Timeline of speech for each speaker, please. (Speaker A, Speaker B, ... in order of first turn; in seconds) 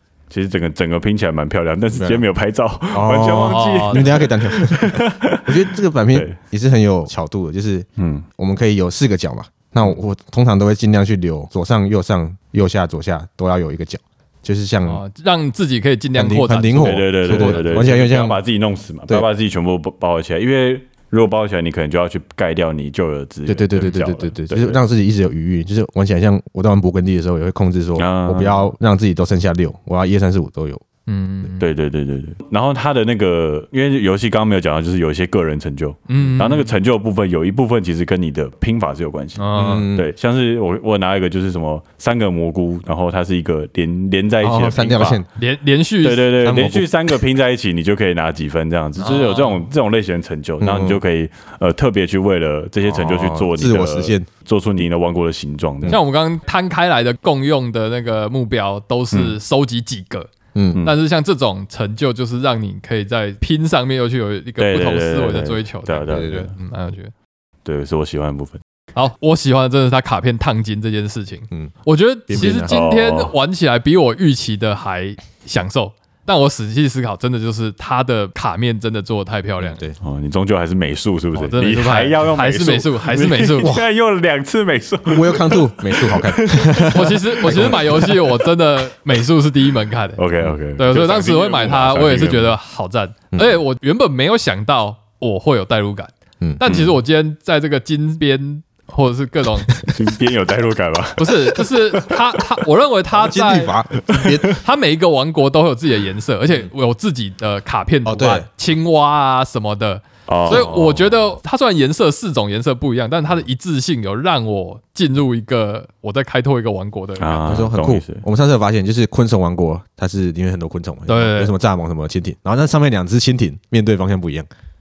Speaker A: 0.3-5.6, 8.0-8.2, 16.8-24.8, 27.9-28.7, 31.6-45.2, 46.0-56.0, 64.6-66.5, 67.6-68.6, 72.3-73.3, 80.0-88.2, 90.2-92.6, 96.6-97.0, 99.9-102.1, 104.1-104.4, 110.3-111.1, 117.2-118.2
Speaker B: 1.9-2.3, 2.9-7.9, 8.4-15.0, 16.1-18.4, 23.5-30.8, 39.5-40.1, 44.4-45.3, 46.4-46.9, 50.6-51.0, 52.8-54.3, 60.5-60.8, 66.1-66.5, 72.3-72.8, 79.6-80.0, 83.6-83.8, 85.1-88.1, 93.3-93.6, 99.7-100.0, 103.1-104.6, 108.0-108.5, 117.5-124.5
Speaker C: 3.3-4.1, 14.8-17.8, 31.1-31.6, 36.1-36.7, 39.4-39.9, 45.3-46.3, 49.0-49.6, 55.9-60.3, 60.8-67.1, 68.9-79.8, 81.3-83.7, 86.9-90.2, 90.8-99.7, 101.2-103.7, 104.5-117.7, 121.1-121.5